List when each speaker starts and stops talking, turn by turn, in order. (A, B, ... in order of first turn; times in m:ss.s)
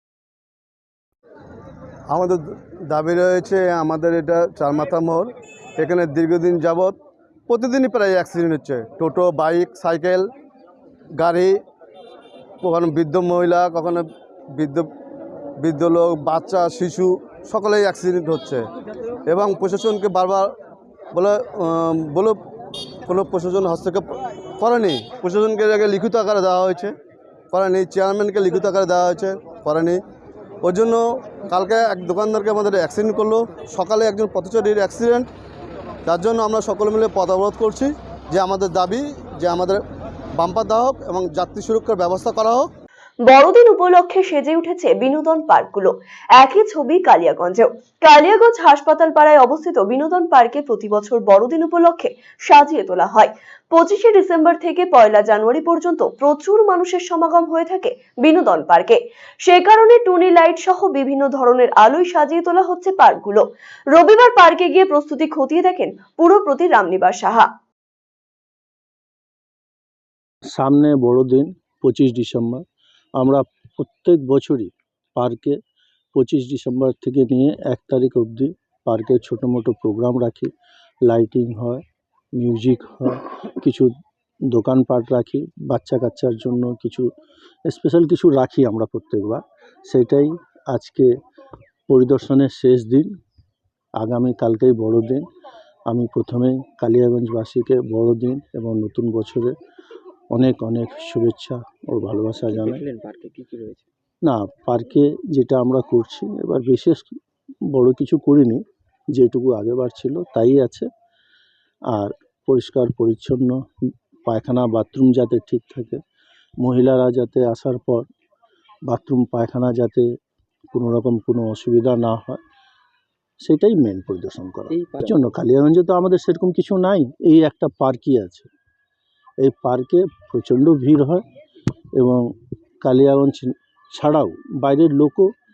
0:02.1-0:07.0 A
0:07.5-0:10.3 A
0:11.2-0:11.6 A
0:12.6-0:14.9 A
0:15.6-0:18.6 A
0:19.3-0:20.5 A
0:21.1-0:22.4 A
0:23.1-0:26.9 A
0:27.5-0:30.0 A
0:30.6-0:35.3 A
0:36.1-0:39.8 A
0:40.4-0:42.7 A
0:43.3-1:07.5 B
1:10.5-1:12.6 C
1:13.2-1:15.6 C
1:16.2-1:20.5 C
1:21.1-1:21.8 C
1:22.4-1:23.9 C
1:24.5-1:27.1 C
1:27.7-1:31.1 C
1:31.9-1:33.1 C
1:34.0-1:35.3 C
1:35.9-1:39.5 C
1:40.3-1:42.8 C
1:42.5-1:43.9 D
1:44.3-1:47.1 C
1:47.7-1:48.6 C
1:49.1-1:50.9 C
1:51.9-1:53.6 C
1:54.3-1:56.0 C
1:56.6-1:58.0 C
1:58.9-2:00.1 C
2:00.7-2:02.4 C
2:03.4-2:08.5 C
2:04.7-2:05.2 D
2:09.4-2:11.2 C
2:12.0-2:12.2 C
2:12.8-2:15.3 C